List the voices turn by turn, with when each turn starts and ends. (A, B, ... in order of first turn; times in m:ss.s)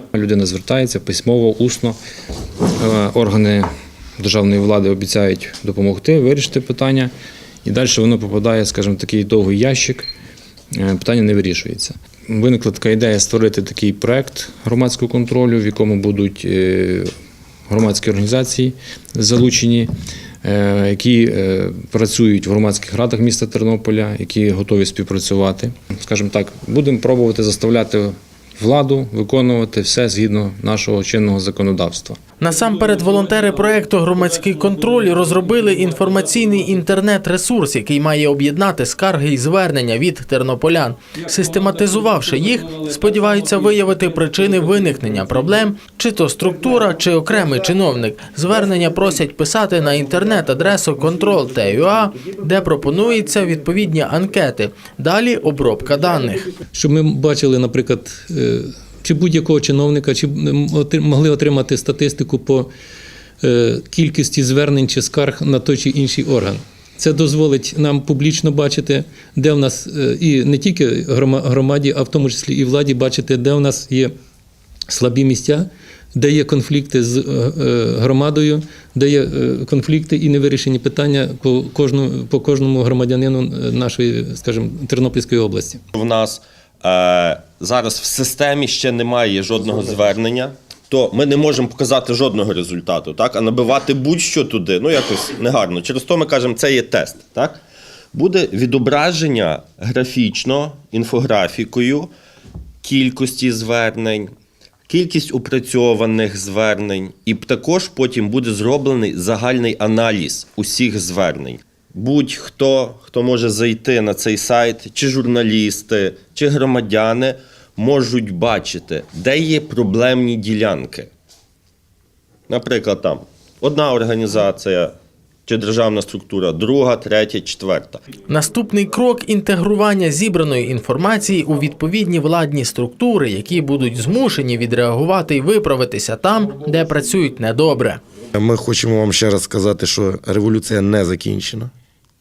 0:00.1-0:02.0 A
0:02.8-0:07.1 A
0:07.6-0:10.1 A
0:10.7-0:17.1 A
0:17.7-0:19.9 A
0:20.4-0:32.2 A
0:32.4-0:56.5 B
0:56.7-1:02.7 C
1:03.4-1:14.1 C
1:14.9-1:25.8 C
1:26.0-1:37.6 D
1:38.1-1:42.1 D
1:42.8-1:44.3 D
1:44.9-2:01.1 D
2:02.5-2:05.0 D
2:05.5-2:08.0 D
2:08.3-2:18.0 B
2:18.4-2:21.7 E